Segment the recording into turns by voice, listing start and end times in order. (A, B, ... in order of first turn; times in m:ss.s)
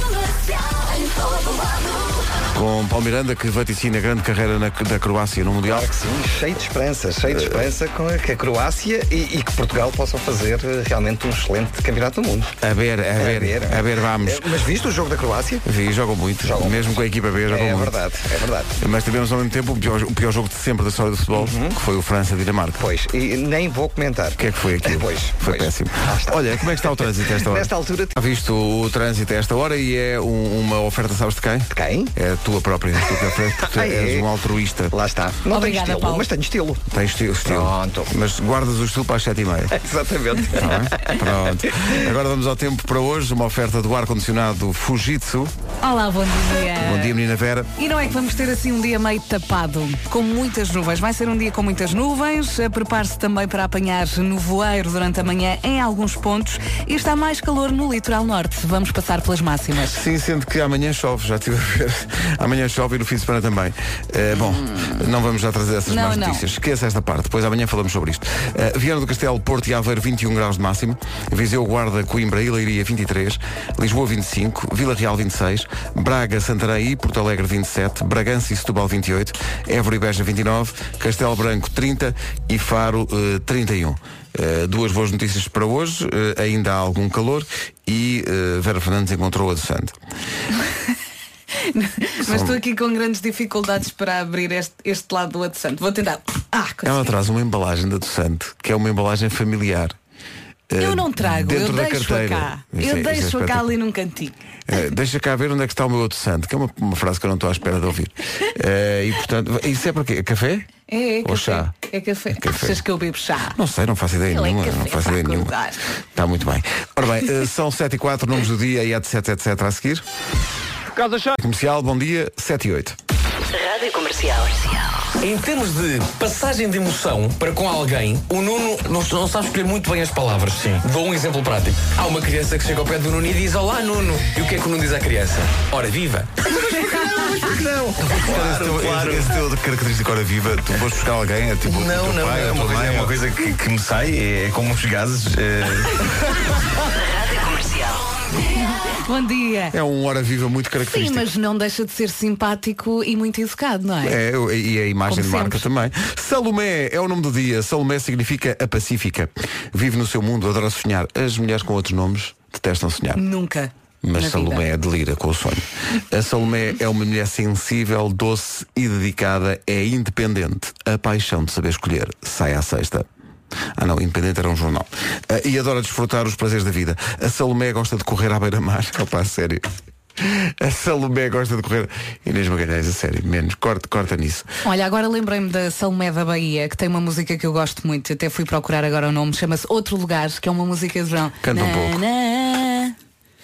0:02.5-0:05.9 A
0:05.7-0:12.6 B
0:07.3-0:07.7 A
0:12.6-0:14.5 A
0:13.2-0:15.6 B
0:15.6-0:18.0 A
0:16.4-0:18.8 B
0:18.8-0:22.8 A
0:21.3-0:21.8 B
0:22.8-0:28.2 B
0:24.4-0:34.9 A
0:31.7-0:32.1 B
0:33.6-0:34.3 B
0:34.9-0:36.8 B
0:35.5-0:36.3 C
0:36.9-0:39.8 A
0:37.4-0:38.1 B
0:39.7-0:41.3 B
0:40.5-0:45.5 A
0:45.8-0:47.2 C
0:46.8-0:47.7 A
0:47.8-1:00.0 C
0:59.8-1:30.0 A
1:04.3-1:05.0 C
1:05.9-1:06.4 C
1:31.6-1:37.1 C
1:32.2-1:32.6 A
1:36.8-1:40.0 A
1:40.7-1:43.8 A
1:40.8-1:44.4 C
1:44.7-1:50.7 A
1:50.9-1:53.6 C
1:51.2-1:51.7 A
1:52.3-1:52.8 A
1:53.6-1:55.6 A
1:54.3-1:55.8 C
1:56.2-2:00.0 A
2:01.4-2:03.0 A
2:05.2-2:16.5 D
2:17.0-2:23.2 A
2:18.1-2:19.3 D
2:21.6-2:23.2 D
2:23.3-2:25.8 E
2:28.6-2:29.8 C
2:29.7-2:31.2 A
2:30.8-2:34.2 C
2:34.0-2:43.2 A
2:35.1-2:35.7 C
2:43.2-2:44.7 C
2:44.0-2:53.1 A
2:53.8-2:59.7 A
3:00.2-3:04.5 A
3:04.6-3:13.0 C
3:11.4-3:12.0 A